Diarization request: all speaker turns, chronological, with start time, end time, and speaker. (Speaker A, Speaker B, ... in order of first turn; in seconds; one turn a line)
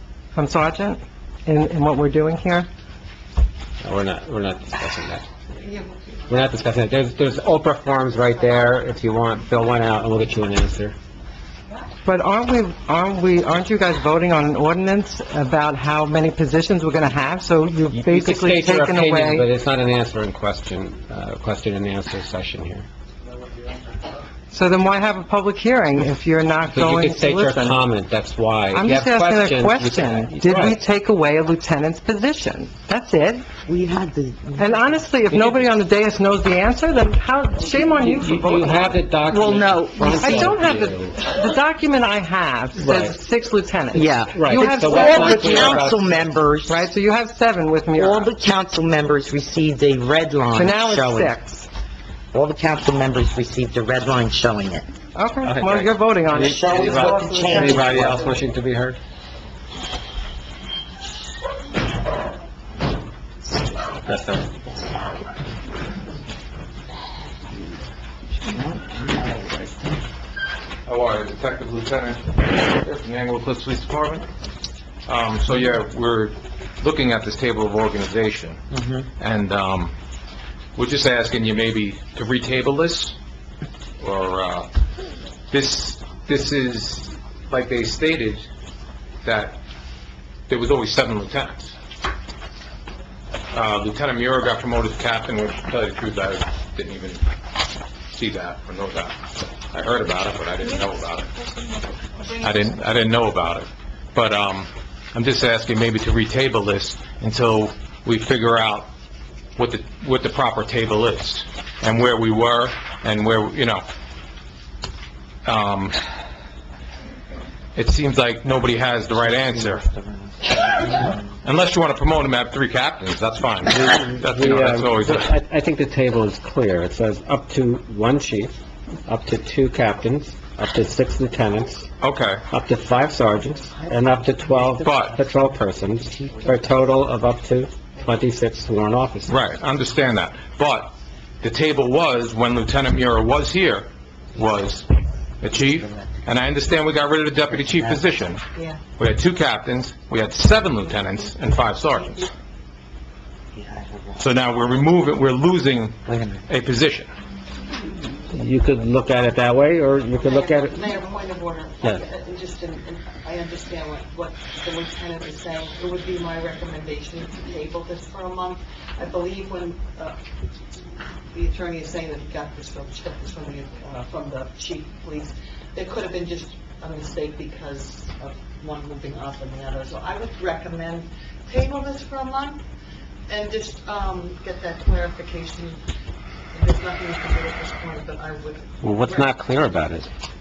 Speaker A: 0.3-2.7
Speaker B: 3.8-5.3
Speaker C: 5.6-6.5
Speaker B: 6.3-10.9
Speaker A: 12.1-19.5
Speaker B: 17.9-22.9
Speaker A: 24.5-27.8
Speaker B: 26.7-30.8
Speaker A: 28.7-33.5
Speaker D: 33.7-34.8
Speaker A: 34.6-38.8
Speaker B: 35.3-35.6
Speaker B: 37.9-41.2
Speaker D: 39.3-40.5
Speaker A: 40.1-46.0
Speaker B: 42.8-43.1
Speaker D: 43.9-46.8
Speaker B: 44.4-46.3
Speaker A: 46.7-48.3
Speaker D: 48.0-51.4
Speaker A: 50.5-51.7
Speaker D: 52.3-54.9
Speaker A: 55.1-56.8
Speaker B: 55.4-59.0
Speaker D: 56.4-58.2
Speaker C: 56.6-58.4
Speaker B: 64.1-64.5
Speaker E: 70.9-74.3
Speaker E: 75.1-78.6
Speaker D: 78.7-79.0
Speaker E: 79.2-80.0
Speaker E: 80.8-83.2
Speaker E: 84.0-84.7
Speaker E: 85.5-88.5
Speaker E: 89.2-89.6
Speaker E: 90.5-91.7
Speaker E: 93.5-97.2
Speaker E: 98.2-99.2
Speaker E: 99.7-101.3
Speaker E: 102.3-108.9
Speaker E: 109.6-113.8
Speaker E: 115.5-116.0
Speaker E: 117.8-119.8
Speaker E: 121.4-125.3
Speaker B: 123.7-128.5
Speaker B: 129.1-131.9
Speaker E: 132.0-132.4
Speaker B: 132.5-139.3
Speaker E: 134.7-135.2
Speaker E: 139.3-144.9
Speaker E: 145.4-148.4
Speaker C: 148.6-148.8
Speaker E: 149.0-152.3
Speaker D: 153.6-154.2
Speaker E: 154.2-157.1
Speaker B: 158.3-160.9
Speaker C: 160.2-170.2
Speaker C: 171.3-182.6
Speaker C: 183.3-185.8
Speaker C: 186.5-189.3
Speaker B: 188.8-190.1